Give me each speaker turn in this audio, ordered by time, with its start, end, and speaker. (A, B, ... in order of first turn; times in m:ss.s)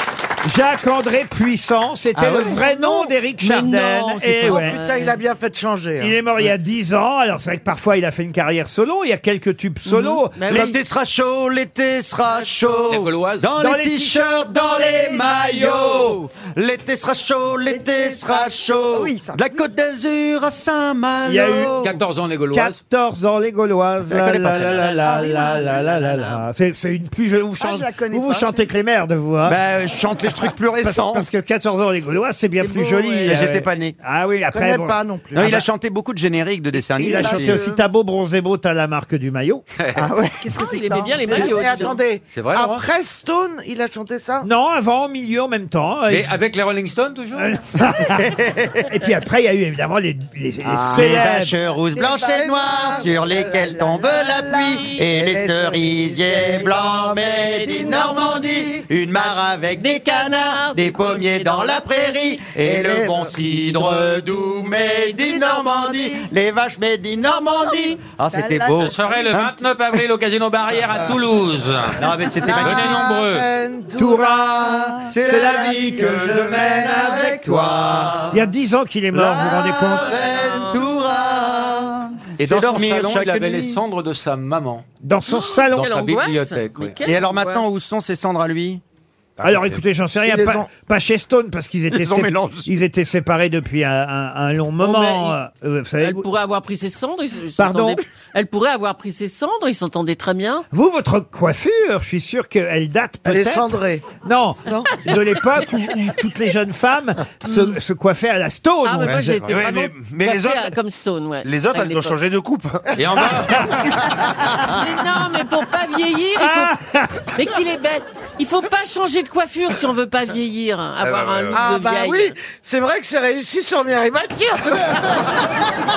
0:00.4-0:04.8 A
0:02.4-0:05.2 B
0:04.4-0:06.2 C
0:06.0-0:10.6 A
0:09.8-0:10.8 B
0:10.5-0:22.0 D
0:12.9-0:13.4 E
0:13.6-0:14.8 A
0:15.3-0:16.2 A
0:17.7-0:19.6 F
0:21.2-0:21.8 A
0:21.8-0:22.8 E
0:22.5-0:29.6 A
0:24.1-0:25.2 D
0:24.9-0:26.4 B
0:25.1-0:25.8 F
0:27.6-0:28.6 F
0:29.4-0:31.3 D
0:30.8-0:35.0 A
0:32.6-0:33.4 B
0:33.2-0:34.0 D
0:34.5-0:35.7 C
0:35.3-0:37.6 D
0:37.0-0:37.8 F
0:37.0-0:39.6 A
0:39.7-0:40.1 E
0:40.0-0:40.2 D
0:40.0-0:42.0 F
0:40.5-0:42.0 B
0:41.2-0:44.5 C
0:42.3-0:42.9 E
0:44.4-0:46.4 A
0:46.1-0:47.6 E
0:47.3-0:51.6 A
0:48.2-0:48.8 D
0:50.6-1:09.6 D
0:51.9-0:54.9 F
0:54.7-0:55.0 B
0:55.1-0:56.0 C
0:57.5-0:58.6 B
0:58.1-0:58.4 F
0:59.7-1:01.8 B
1:02.6-1:03.8 C
1:05.4-1:06.0 F
1:07.7-1:07.9 B
1:08.3-1:09.4 F
1:08.8-1:12.0 E
1:11.9-1:13.0 D
1:12.4-1:13.2 F
1:12.5-1:13.5 E
1:12.6-1:14.5 C
1:14.0-1:20.2 A
1:14.0-1:17.7 F
1:15.1-1:18.4 D
1:19.1-1:23.8 D
1:19.8-1:20.8 F
1:20.4-1:20.8 B
1:21.4-1:21.8 F
1:22.4-1:24.8 E
1:25.0-1:25.9 A
1:25.3-1:27.6 B
1:25.7-1:27.0 E
1:27.0-1:28.8 D
1:29.4-1:29.8 G
1:29.4-1:36.2 A
1:30.2-1:30.7 C
1:31.9-1:32.7 D
1:34.8-1:35.3 B
1:36.0-1:40.6 B
1:37.6-1:38.0 A
1:40.7-1:49.4 A
1:43.2-1:44.1 C
1:44.6-1:45.0 C
1:48.8-1:52.1 B
1:49.0-1:49.6 D
1:49.5-1:50.8 G
1:51.4-1:53.0 G
1:53.0-1:53.8 E
1:53.5-1:54.0 G
1:53.5-1:53.8 A
1:54.6-1:56.7 B
1:56.4-1:57.3 A
1:57.3-2:02.3 B
2:01.0-2:01.7 G
2:01.5-2:05.4 C